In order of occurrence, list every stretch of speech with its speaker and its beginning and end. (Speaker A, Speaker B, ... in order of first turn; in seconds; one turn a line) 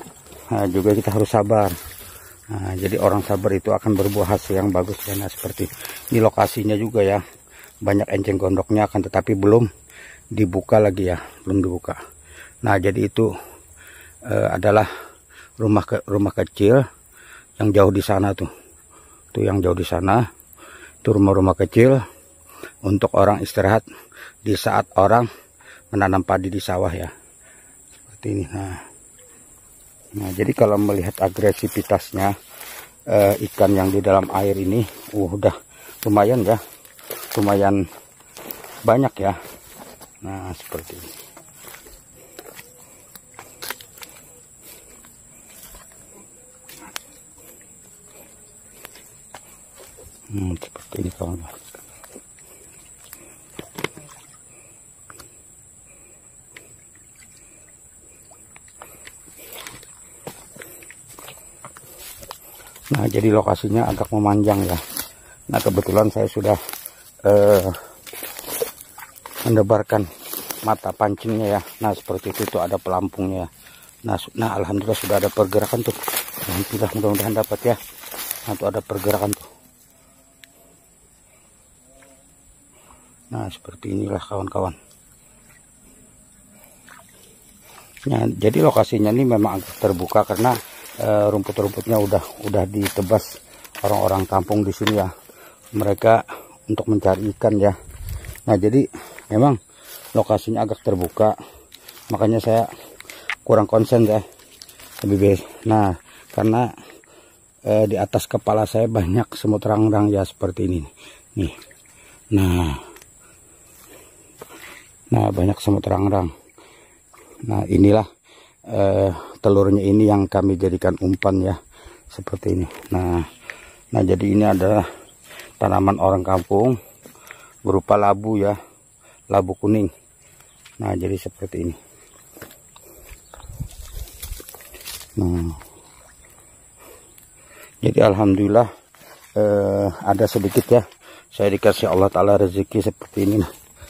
Speaker A: 0.5-1.7
Speaker A: 2.5-7.2
Speaker A: 7.8-9.7
Speaker A: 10.3-12.0
Speaker A: 12.6-13.3
Speaker A: 14.3-14.9
Speaker A: 15.6-16.8
Speaker A: 17.6-18.5
Speaker A: 19.3-20.2
Speaker A: 21.0-22.0
Speaker A: 22.8-23.8
Speaker A: 24.4-25.3
Speaker A: 25.9-27.1
Speaker A: 28.1-28.8
Speaker A: 30.1-32.3
Speaker A: 33.1-36.6
Speaker A: 37.3-37.8
Speaker A: 38.9-39.4
Speaker A: 40.2-41.1
Speaker A: 50.3-51.5
Speaker A: 62.9-64.8
Speaker A: 65.5-66.6
Speaker A: 67.2-67.8
Speaker A: 69.4-70.1
Speaker A: 70.6-73.5
Speaker A: 74.1-77.8
Speaker A: 78.5-79.5
Speaker A: 83.3-84.8
Speaker A: 88.1-93.3
Speaker A: 93.8-95.1
Speaker A: 95.8-97.8
Speaker A: 98.5-99.6
Speaker A: 100.1-101.3
Speaker A: 102.1-102.7
Speaker A: 103.4-104.2
Speaker A: 105.0-106.7
Speaker A: 107.7-111.5
Speaker A: 112.3-112.8
Speaker A: 115.1-116.3
Speaker A: 117.4-118.1
Speaker A: 118.7-121.6
Speaker A: 122.1-123.3
Speaker A: 123.9-124.9
Speaker A: 125.6-126.8
Speaker A: 127.6-128.6
Speaker A: 129.3-129.9
Speaker A: 130.8-131.8
Speaker A: 135.2-135.6
Speaker A: 137.8-138.7
Speaker A: 139.4-143.4